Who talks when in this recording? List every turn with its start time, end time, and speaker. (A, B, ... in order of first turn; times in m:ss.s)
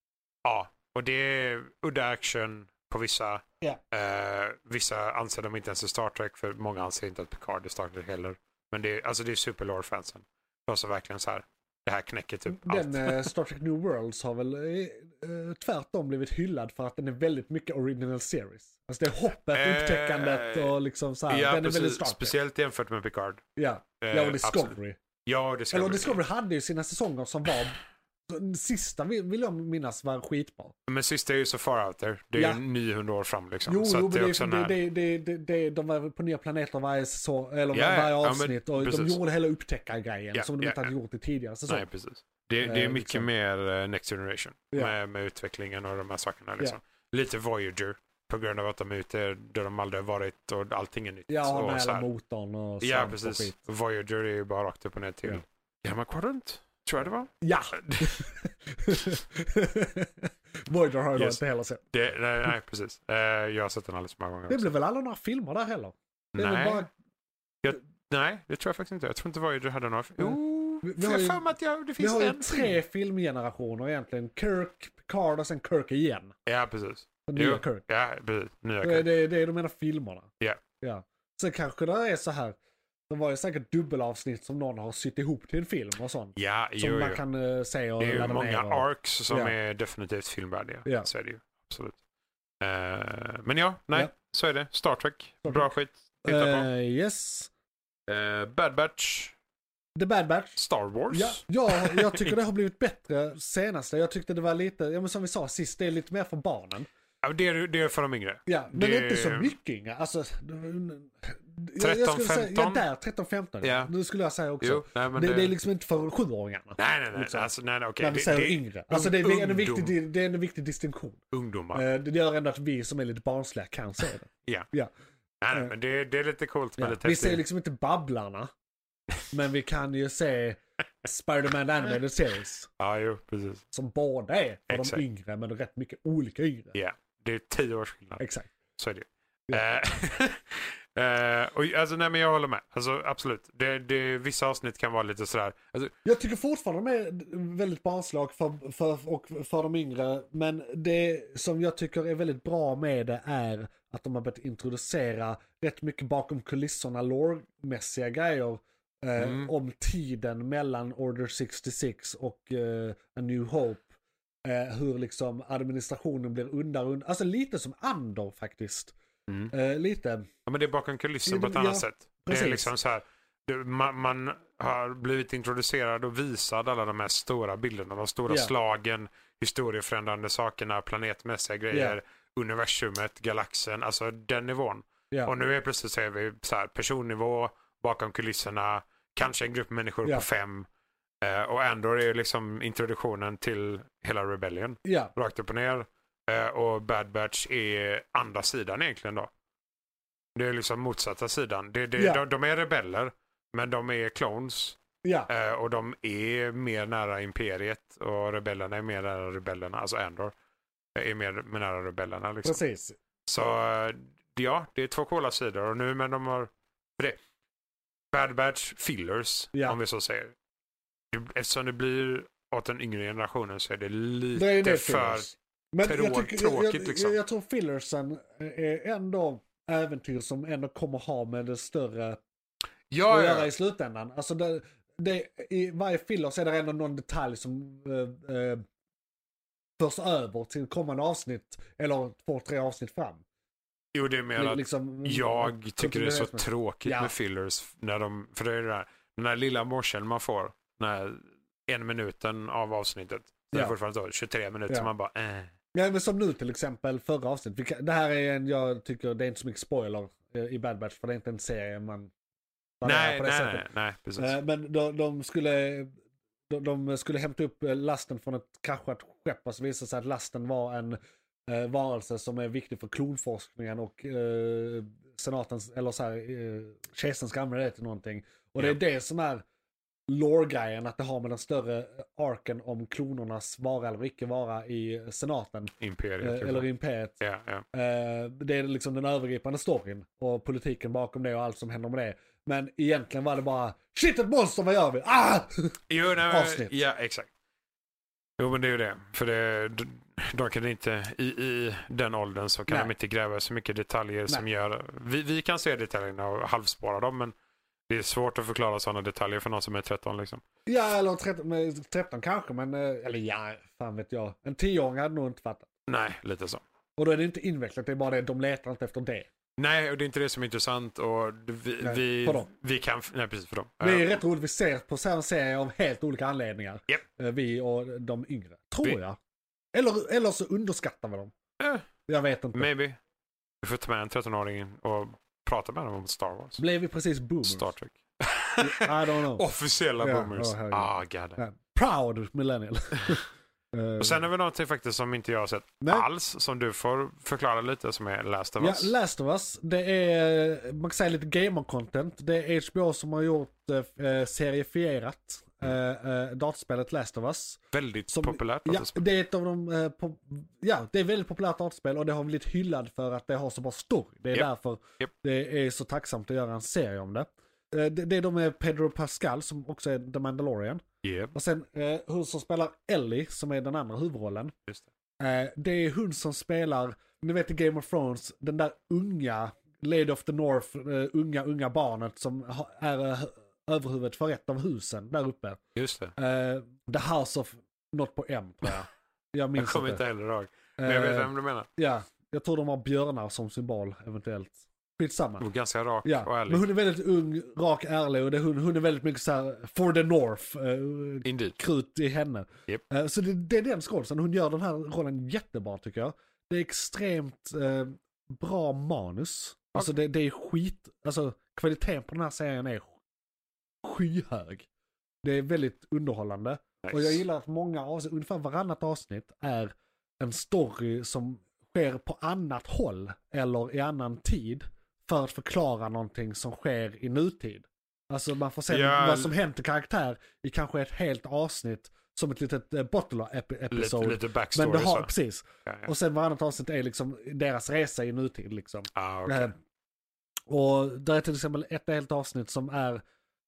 0:00.4-0:13.3 A
0:12.5-0:22.3 B
0:19.5-0:20.8 A
0:21.3-0:23.4 A
0:23.6-0:25.0 B
0:24.0-0:26.2 A
0:25.7-0:30.7 B
0:30.9-0:34.8 A
0:32.4-0:32.6 B
0:33.7-0:41.8 B
0:37.7-0:39.2 A
0:40.3-0:40.9 A
0:41.7-0:52.1 A
0:42.6-0:43.3 B
0:51.3-0:53.5 B
0:52.8-0:58.3 A
0:57.4-1:01.8 B
1:01.9-1:04.7 A
1:04.5-1:06.9 B
1:06.3-1:06.9 A
1:07.6-1:12.8 A
1:10.2-1:11.5 B
1:12.0-1:16.3 B
1:16.4-1:19.1 A
1:17.3-1:17.8 B
1:18.8-1:20.3 B
1:20.8-1:22.6 B
1:23.1-1:29.5 B
1:26.4-1:27.2 A
1:28.0-1:32.0 A
1:32.6-1:36.7 A
1:35.4-1:35.7 B
1:36.2-1:37.5 B
1:38.1-1:39.3 A
1:40.0-1:40.6 B
1:40.6-1:42.3 A
1:41.1-1:46.9 B
1:47.2-1:49.5 A
1:48.4-2:01.2 B
1:51.8-1:52.8 A
1:53.6-1:53.9 A
1:54.6-1:55.5 A
1:56.8-1:59.9 A
2:01.3-2:01.8 A
2:01.7-2:04.9 B
2:05.4-2:07.4 A
2:06.8-2:08.5 B
2:09.3-2:12.7 B
2:12.8-2:13.6 A
2:13.7-2:16.8 B
2:14.7-2:15.0 A
2:16.7-2:18.2 A
2:18.2-2:18.5 B
2:18.8-2:25.9 A
2:26.0-2:43.9 B
2:39.2-2:39.5 A
2:44.4-2:48.9 B
2:49.3-2:49.5 A
2:49.5-2:50.3 B
2:50.4-3:10.7 A
2:51.2-2:52.7 B
3:01.7-3:02.0 B
3:11.2-3:19.3 A
3:14.8-3:15.1 B
3:20.3-3:30.3 A
3:22.0-3:22.2 B
3:25.0-3:25.3 B
3:30.9-3:32.6 A
3:32.4-3:33.0 B
3:33.3-3:37.2 A
3:38.1-3:40.3 A
3:41.1-3:45.3 A
3:44.3-3:52.2 B
3:45.8-3:47.2 A
3:52.9-3:53.5 A
3:53.1-3:58.6 B
3:59.8-4:03.2 B
4:03.9-4:15.5 A
4:04.3-4:07.1 B
4:15.7-4:22.1 B
4:22.8-4:23.6 B
4:22.8-4:24.3 A
4:24.2-4:25.9 B
4:26.5-4:39.4 B
4:40.1-4:47.2 B
4:45.8-4:46.6 A
4:47.2-4:47.6 A
4:47.7-4:56.7 B
4:55.9-4:57.3 A
4:58.4-5:07.3 A
5:07.9-5:10.4 A
5:10.6-5:15.7 B
5:15.9-5:16.6 A
5:17.0-5:19.3 B
5:19.6-5:24.2 A
5:21.8-5:22.5 B
5:23.8-5:29.2 B
5:29.7-5:31.3 B
5:31.6-5:31.8 A
5:32.1-5:32.7 B
5:32.5-5:33.0 A
5:33.6-5:36.6 A
5:36.6-5:37.7 B
5:37.4-5:41.4 A
5:38.6-5:39.4 B
5:40.0-5:44.2 B
5:44.0-5:48.9 A
5:45.8-5:46.1 B
5:48.6-6:14.5 B
5:57.7-5:59.0 A
6:11.0-6:11.3 A
6:15.2-6:25.6 B
6:25.8-6:26.1 A
6:26.2-6:30.0 B
6:29.6-6:31.7 A
6:30.8-6:35.4 B
6:35.4-6:36.6 A
6:36.0-6:52.9 B
6:41.2-6:41.6 A
6:53.8-6:54.7 B
6:55.2-7:19.6 B
6:56.8-6:57.2 A
7:08.7-7:09.3 A
7:13.7-7:15.1 A
7:18.9-7:19.5 A
7:20.5-7:23.0 B